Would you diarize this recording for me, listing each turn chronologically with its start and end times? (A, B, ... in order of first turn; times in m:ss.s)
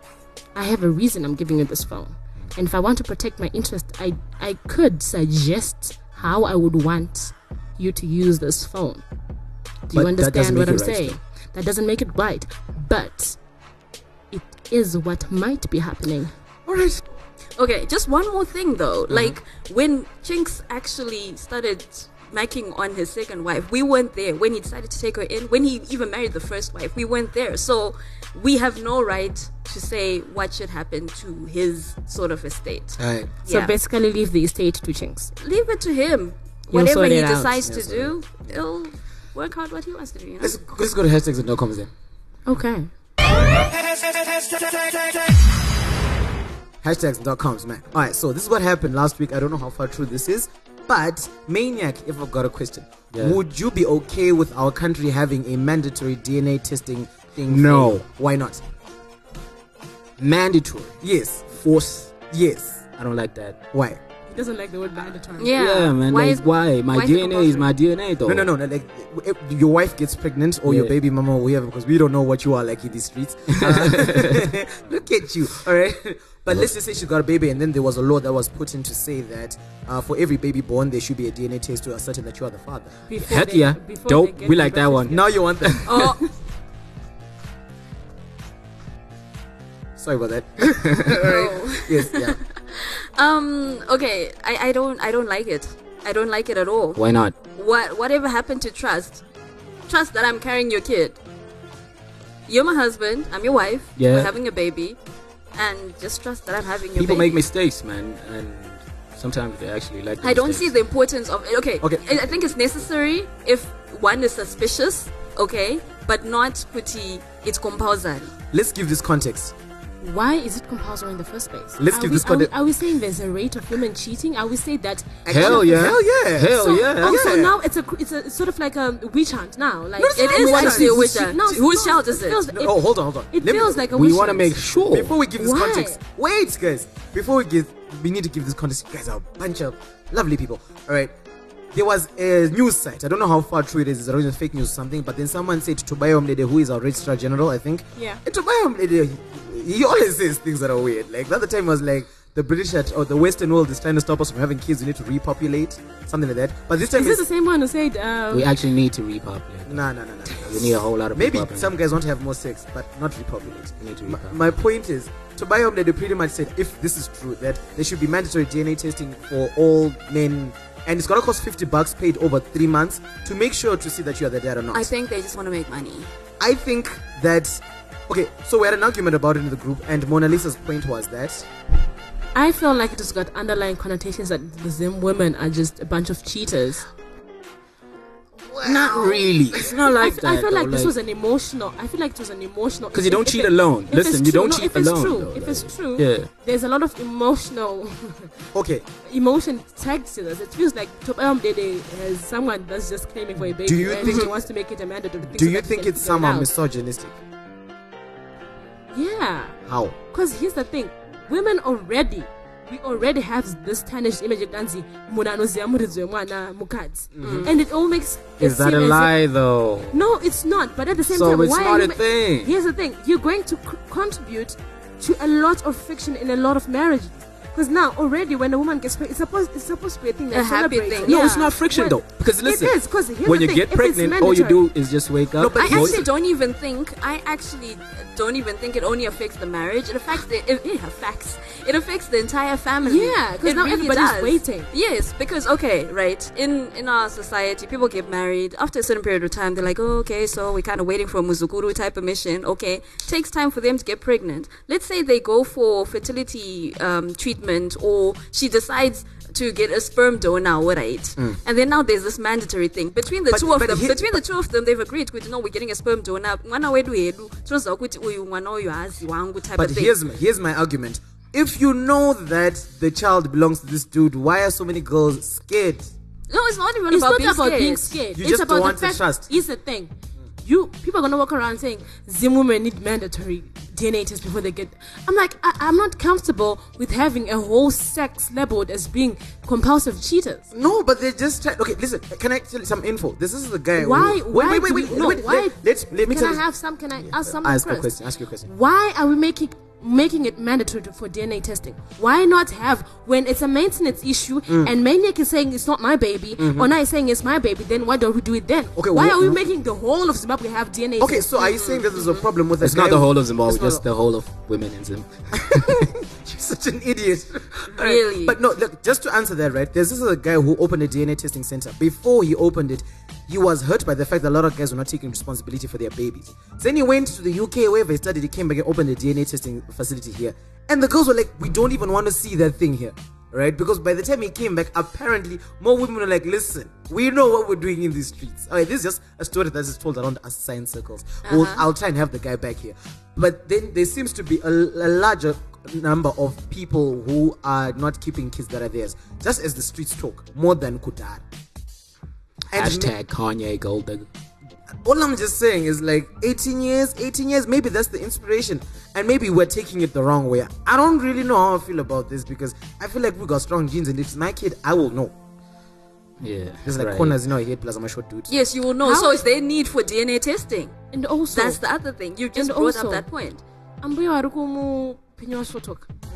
0:00.6-0:09.0 A
0:09.9-0:13.4 A
0:09.9-0:11.2 B
0:14.3-0:16.3 A
0:16.7-0:17.0 B
0:17.6-0:33.7 C
0:19.1-0:19.4 B
0:33.0-0:33.3 B
0:33.5-0:35.3 A
0:35.4-0:40.6 C
0:36.7-0:37.6 A
0:37.6-0:38.6 B
0:40.4-0:41.9 B
0:42.5-0:42.9 A
0:44.0-0:44.9 B
0:46.8-0:58.6 B
0:53.1-0:53.4 D
0:57.5-0:58.0 D
1:00.2-1:01.0 D
1:01.0-1:02.8 B
1:01.6-1:02.1 D
1:03.0-1:03.6 D
1:03.7-1:04.0 B
1:04.3-1:05.6 A
1:05.4-1:07.7 C
1:05.6-1:08.5 D
1:08.3-1:23.0 B
1:10.7-1:10.9 D
1:13.5-1:14.5 D
1:23.1-1:25.2 A
1:23.2-1:26.1 D
1:25.1-1:26.1 B
1:25.8-1:26.2 C
1:30.0-1:32.4 B
1:31.2-1:39.2 C
1:37.0-1:37.4 D
1:39.9-1:41.2 C
1:42.5-1:45.0 C
1:44.0-1:44.3 D
1:45.6-1:47.4 C
1:47.0-1:50.7 D
1:50.2-1:58.3 C
1:51.8-1:52.2 B
1:58.5-1:59.6 B
2:00.0-2:06.0 A
2:01.8-2:02.5 B
2:05.2-2:07.6 B
2:05.3-2:07.4 D
2:06.6-2:12.8 A
2:10.0-2:13.9 B
2:10.2-2:12.5 C
2:13.3-2:14.6 A
2:13.9-2:15.2 D
2:14.8-2:21.1 B
2:15.4-2:16.0 A
2:21.7-2:37.2 B
2:36.9-2:38.5 A
2:38.3-2:41.7 D
2:39.7-2:54.9 B
2:43.8-2:44.4 D
2:54.7-2:56.1 C
2:56.4-3:01.5 B
3:02.4-3:06.9 A
3:08.5-3:09.8 B
3:08.6-3:10.9 D
3:09.9-3:18.3 A
3:12.9-3:16.3 D
3:18.5-3:18.8 B
3:19.0-3:26.5 A
3:23.6-3:24.4 B
3:24.0-3:24.3 C
3:25.3-3:27.2 B
3:28.9-3:29.6 A
3:29.6-3:30.0 B
3:30.1-3:39.1 A
3:37.2-3:37.5 B
3:37.2-3:37.5 C
3:38.4-3:40.0 D
3:39.9-3:54.6 A
3:41.1-3:42.5 D
3:50.3-3:51.6 C
3:51.1-3:52.0 B
3:51.1-3:56.0 D
3:55.4-3:56.1 B
3:55.6-4:30.0 C
4:02.8-4:04.7 A
4:23.3-4:24.2 B
4:29.6-4:35.9 B
4:36.3-4:38.0 C
4:36.9-4:39.9 A
4:38.1-4:39.3 B
4:40.4-4:50.5 A
4:50.5-4:56.4 B
4:53.8-4:57.9 A
4:57.0-4:58.5 B
4:58.4-5:11.3 A
5:04.5-5:04.7 B
5:06.4-5:06.7 B
5:08.8-5:09.4 B
5:11.0-5:13.8 B
5:11.4-5:12.3 C
5:12.6-5:15.9 D
5:15.3-5:51.2 B
5:17.7-5:18.4 C
5:41.2-5:41.6 C
5:52.5-5:52.9 B
5:52.5-5:54.1 D
5:54.8-6:05.1 B
6:06.2-6:07.2 D
6:06.6-6:08.3 B
6:08.3-6:10.8 C
6:08.8-6:09.2 A
6:10.9-6:11.6 A
6:11.3-6:13.4 C
6:12.4-6:13.1 A
6:13.8-6:15.9 A